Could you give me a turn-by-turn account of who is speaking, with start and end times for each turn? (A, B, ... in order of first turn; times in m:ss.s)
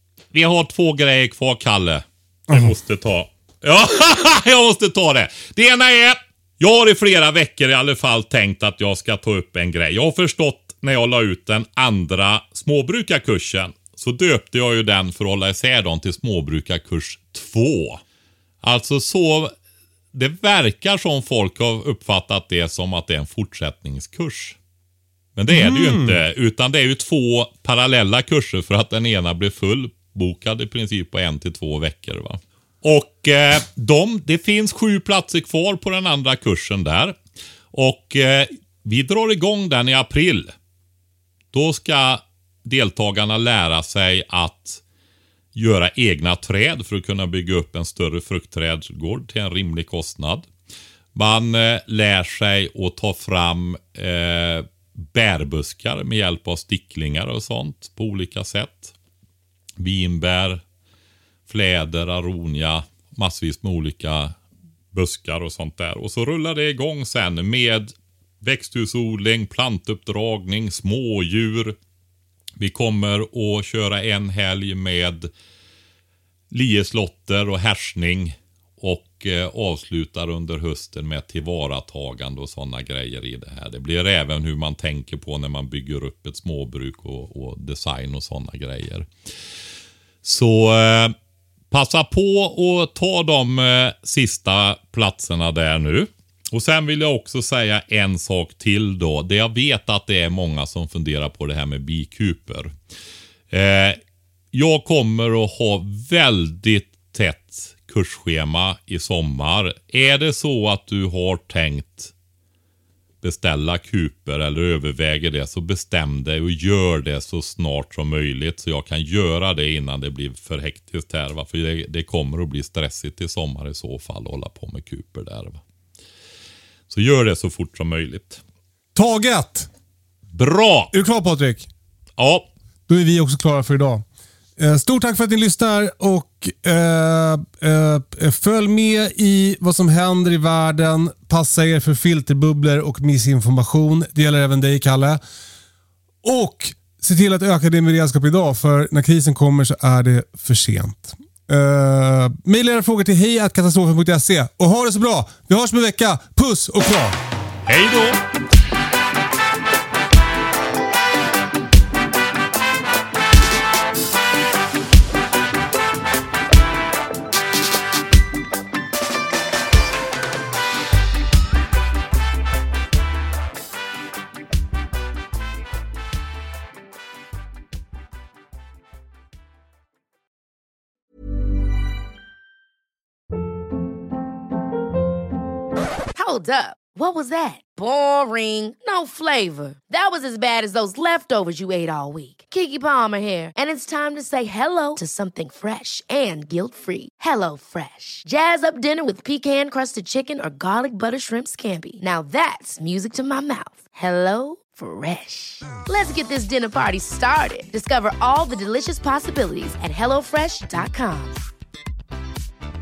0:00.3-0:18.0 A
0:02.5-0:02.8 B
0:18.6-0:19.5 A
0:20.1-0:24.6 A
0:25.4-0:37.2 A
0:25.5-0:26.2 B
0:37.7-0:40.5 A
0:41.5-0:44.8 A
0:45.5-0:50.5 A
0:51.2-0:59.0 A
0:59.8-1:00.6 A
1:01.5-1:04.4 A
1:04.9-1:11.8 A
1:12.6-1:15.3 A
1:16.5-1:29.1 A
1:30.2-1:31.2 A
1:31.7-1:42.7 A
1:43.5-1:44.0 A
1:44.5-1:52.1 A
1:53.2-2:05.6 A
2:06.9-2:08.4 A
2:09.0-2:09.7 B
2:10.3-2:10.9 A
2:10.9-2:11.7 B
2:12.2-2:12.5 A
2:12.9-2:14.0 B
2:14.6-2:25.2 B
2:26.2-2:37.2 B
2:37.7-2:38.2 A
3:06.2-3:31.4 C